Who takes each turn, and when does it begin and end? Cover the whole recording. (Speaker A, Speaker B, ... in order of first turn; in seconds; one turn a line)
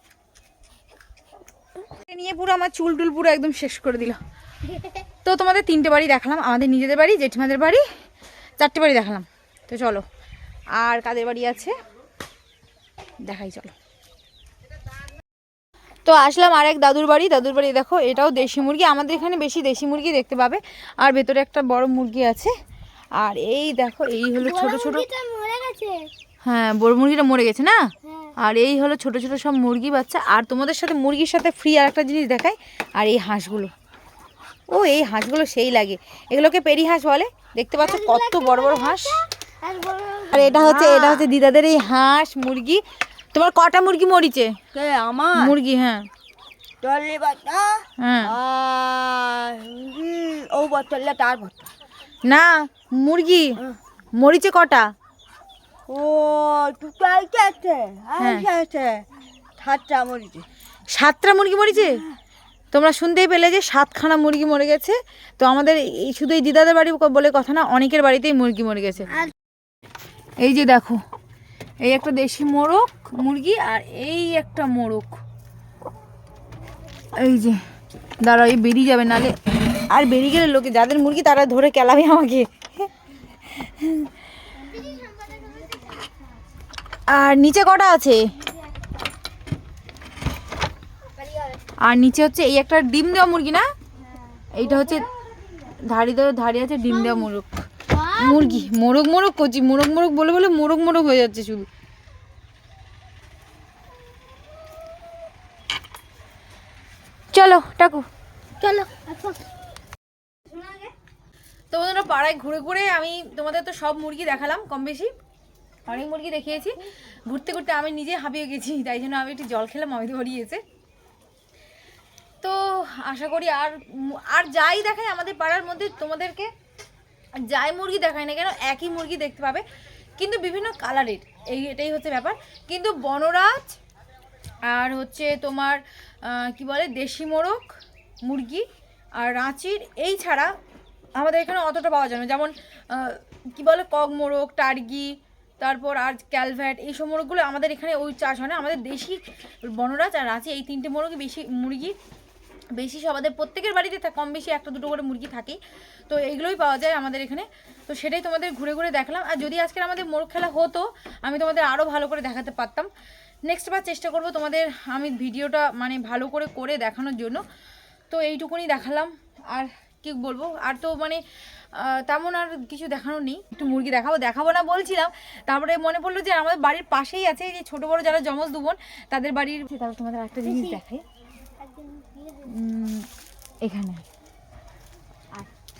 Speaker A: 1.9-4.2
Speaker A: 5.2-7.8
Speaker A: 8.6-10.1
Speaker A: 10.8-11.8
Speaker A: 13.2-13.8
Speaker A: 16.1-22.5
Speaker A: 23.2-25.1
Speaker B: 24.4-26.0
Speaker A: 26.4-27.8
Speaker B: 28.1-28.3
Speaker A: 28.4-33.7
Speaker A: 34.7-39.2
Speaker B: 37.8-40.5
Speaker A: 40.3-42.8
Speaker C: 40.4-41.3
Speaker A: 43.3-44.5
Speaker C: 44.7-45.5
Speaker A: 45.4-46.1
Speaker C: 46.8-51.6
Speaker A: 48.0-48.4
Speaker A: 52.3-53.6
Speaker A: 54.2-54.9
Speaker C: 55.9-59.0
Speaker A: 58.2-58.5
Speaker C: 59.6-60.5
Speaker A: 60.9-62.0
Speaker A: 62.7-69.1
Speaker A: 70.4-71.0
Speaker A: 71.8-75.2
Speaker A: 77.2-77.6
Speaker A: 78.2-82.9
Speaker A: 83.5-84.1
Speaker B: 84.5-86.2
Speaker A: 87.1-88.2
Speaker B: 91.2-91.6
Speaker A: 91.8-93.7
Speaker A: 94.5-95.1
Speaker A: 95.7-97.6
Speaker B: 96.9-97.3
Speaker B: 97.9-98.7
Speaker A: 98.1-101.7
Speaker A: 107.3-108.1
Speaker B: 108.6-109.4
Speaker A: 111.7-115.1
Speaker A: 115.9-120.6
Speaker A: 122.4-126.5
Speaker A: 127.5-129.6
Speaker A: 130.2-133.8
Speaker A: 134.7-137.7
Speaker A: 138.3-138.7
Speaker A: 139.2-140.5
Speaker A: 141.2-152.0
Speaker A: 152.8-162.9
Speaker A: 163.5-167.4
Speaker A: 168.1-171.2
Speaker A: 171.7-181.0
Speaker B: 180.4-180.8
Speaker B: 181.6-182.5
Speaker A: 182.4-183.1
Speaker A: 183.6-184.0